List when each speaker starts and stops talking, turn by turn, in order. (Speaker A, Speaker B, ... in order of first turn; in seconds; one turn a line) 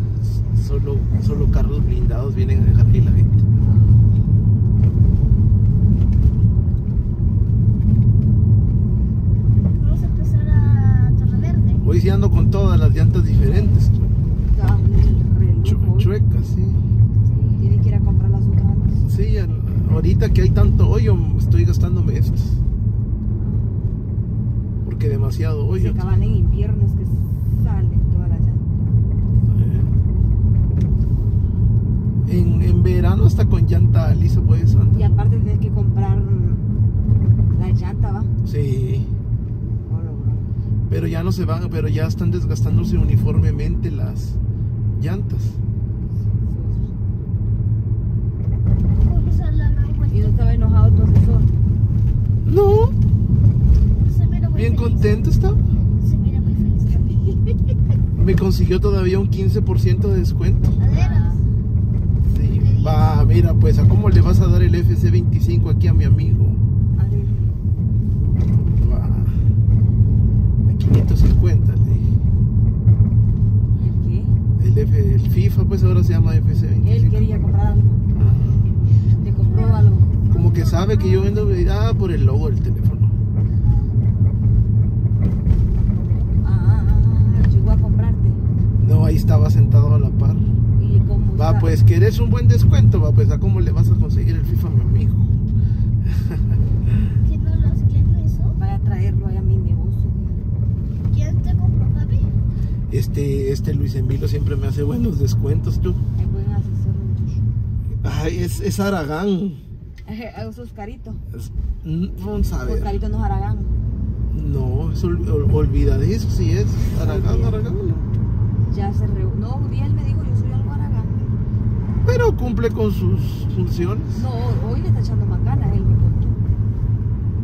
Speaker A: 0.2-3.4
Speaker B: 3.6-4.0
Speaker C: 9.8-11.8
Speaker A: 11.8-14.1
Speaker B: 14.5-16.1
Speaker A: 15.6-16.8
Speaker C: 17.2-17.8
Speaker B: 17.6-19.1
Speaker A: 19.1-22.6
Speaker A: 24.8-26.0
Speaker B: 25.7-28.6
Speaker A: 29.4-29.9
Speaker A: 32.2-35.1
Speaker B: 34.9-36.8
Speaker B: 37.5-38.3
Speaker A: 38.4-39.1
Speaker B: 39.9-40.5
Speaker A: 40.9-44.4
Speaker A: 44.9-45.6
Speaker B: 46.3-46.9
Speaker C: 49.0-50.3
Speaker B: 50.1-51.5
Speaker A: 52.4-52.9
Speaker C: 54.0-55.2
Speaker A: 54.5-55.6
Speaker C: 56.0-57.2
Speaker A: 58.2-60.8
Speaker C: 60.8-61.4
Speaker B: 60.9-61.4
Speaker A: 62.3-66.6
Speaker C: 62.4-63.2
Speaker B: 67.0-67.5
Speaker A: 68.7-69.5
Speaker A: 70.7-72.1
Speaker B: 73.7-74.4
Speaker A: 74.6-77.3
Speaker B: 76.8-78.0
Speaker A: 78.1-78.7
Speaker B: 79.2-80.1
Speaker C: 79.4-81.5
Speaker A: 80.3-83.1
Speaker C: 83.6-83.9
Speaker B: 86.4-88.4
Speaker A: 88.8-90.4
Speaker B: 90.8-91.8
Speaker A: 91.3-95.4
Speaker A: 96.0-97.1
Speaker C: 97.2-98.6
Speaker B: 98.6-100.4
Speaker C: 101.1-102.3
Speaker A: 102.9-106.0
Speaker B: 106.1-107.4
Speaker A: 108.0-109.6
Speaker B: 110.0-111.2
Speaker A: 111.3-113.0
Speaker B: 112.6-113.7
Speaker A: 114.3-118.1
Speaker B: 117.0-117.6
Speaker B: 118.7-121.4
Speaker A: 122.0-124.2
Speaker B: 124.1-126.4